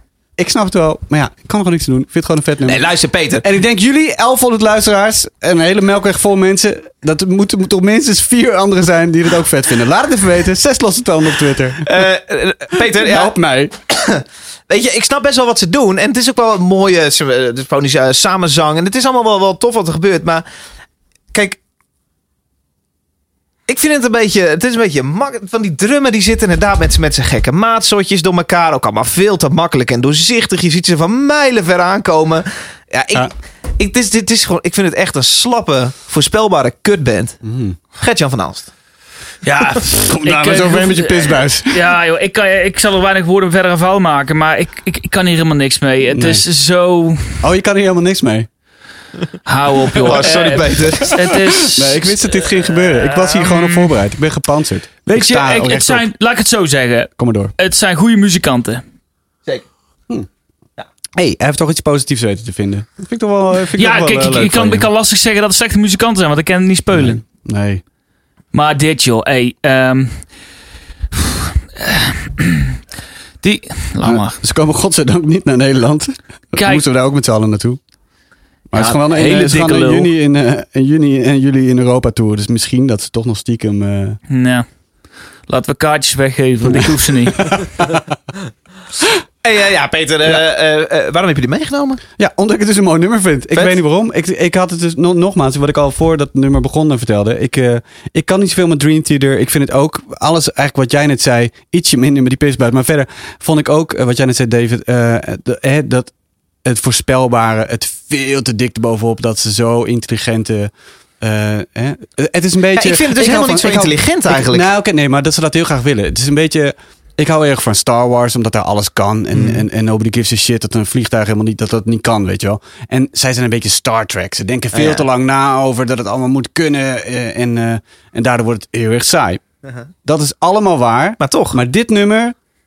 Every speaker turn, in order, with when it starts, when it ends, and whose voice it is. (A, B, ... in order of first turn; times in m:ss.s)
0:00.4-0:12.0 A
0:02.7-0:03.4 B
0:11.8-0:13.4 B
0:12.8-0:13.8 A
0:13.9-0:20.4 B
0:21.3-0:21.6 B
0:23.7-0:37.4 B
0:37.4-0:37.8 A
0:37.9-0:38.7 B
0:39.4-0:47.5 C
0:40.0-0:41.8 A
0:46.1-0:46.4 A
0:47.4-0:48.5 A
0:49.4-0:53.9 C
0:50.0-0:51.4 B
0:50.1-0:50.6 A
0:51.4-0:56.1 A
0:55.1-0:58.8 C
0:57.2-0:57.5 A
1:01.2-1:04.9 A
1:03.7-1:07.2 C
1:06.9-1:07.8 A
1:08.5-1:10.3 C
1:11.1-1:12.7 C
1:13.4-1:14.4 C
1:14.0-1:17.8 A
1:16.5-1:16.8 C
1:18.7-1:24.2 A
1:18.7-1:20.1 C
1:24.3-1:24.7 C
1:25.5-1:27.6 C
1:26.6-1:28.0 A
1:29.4-1:32.0 B
1:32.2-1:46.1 A
1:46.6-2:09.4 A
1:52.8-1:54.7 B
1:59.3-1:59.6 B
2:04.7-2:05.0 B
2:10.0-2:12.4 A
2:11.2-2:11.6 B